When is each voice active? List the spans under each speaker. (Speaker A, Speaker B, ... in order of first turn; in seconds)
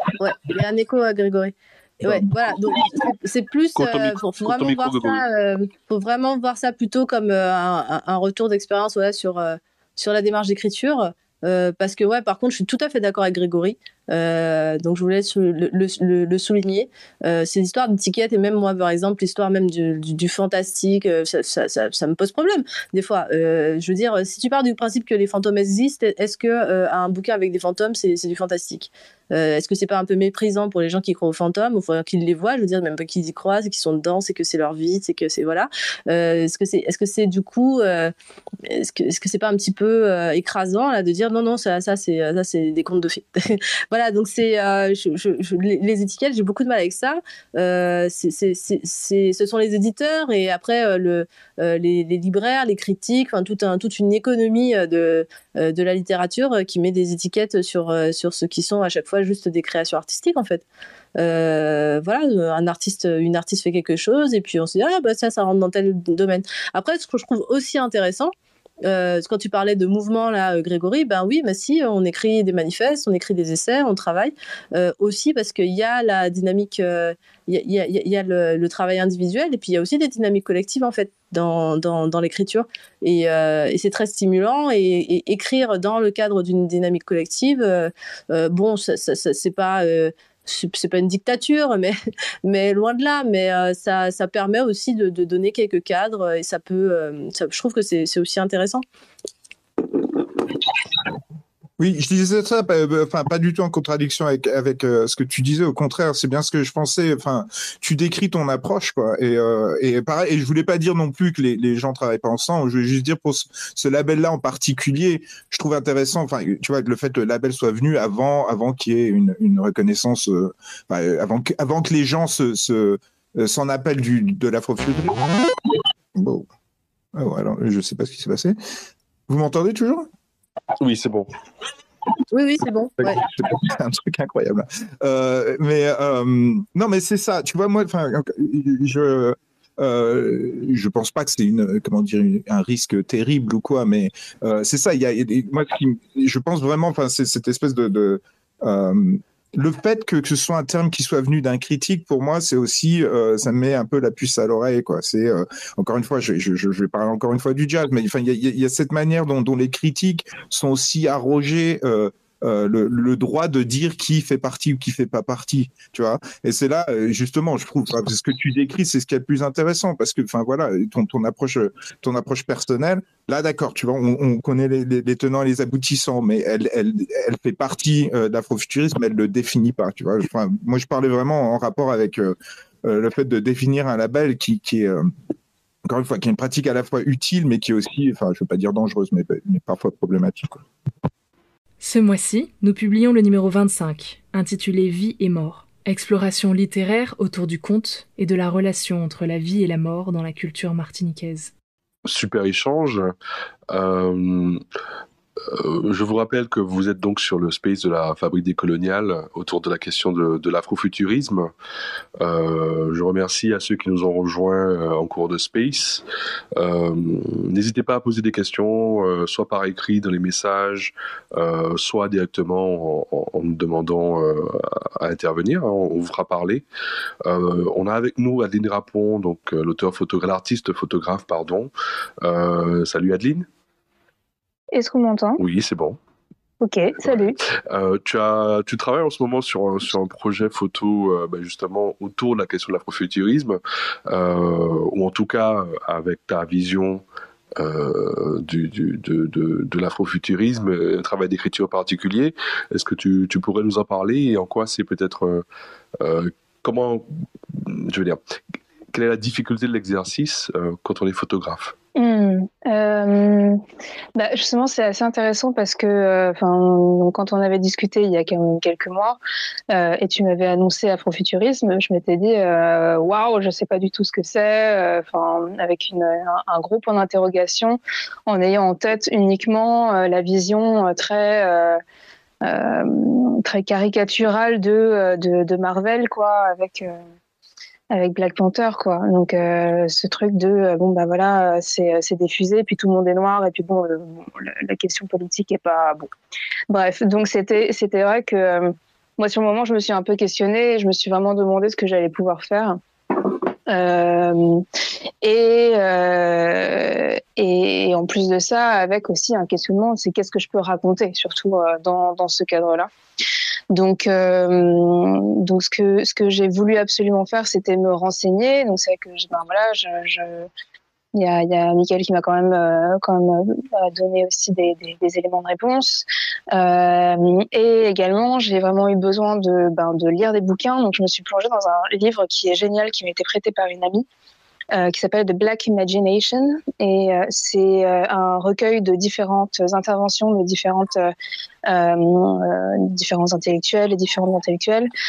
Speaker A: 0.2-38.1, 38.6-60.6, 61.2-68.3, 68.8-98.8, 132.3-133.2
Speaker B: 3.8-5.2, 130.8-131.3, 202.1-203.2, 203.7-204.6, 205.5-211.5, 212.2-216.0, 216.6-226.7, 227.2-231.7, 232.2-233.5, 235.4-236.0, 237.7-247.0, 247.6-255.4, 256.0-258.2, 258.9-261.7
Speaker C: 101.8-125.3, 126.1-126.5, 127.2-128.6, 129.3-130.1, 133.2-185.1, 185.9-190.6
Speaker D: 191.8-201.5
Speaker E: 234.7-235.4, 236.6-237.4, 261.9-263.6, 264.2-269.2, 269.7-281.8, 282.4-287.0, 287.9-296.1, 296.7-302.8, 303.7-304.6, 305.2-312.9, 313.7-320.5, 321.1-334.1, 334.7-341.1, 341.7-344.9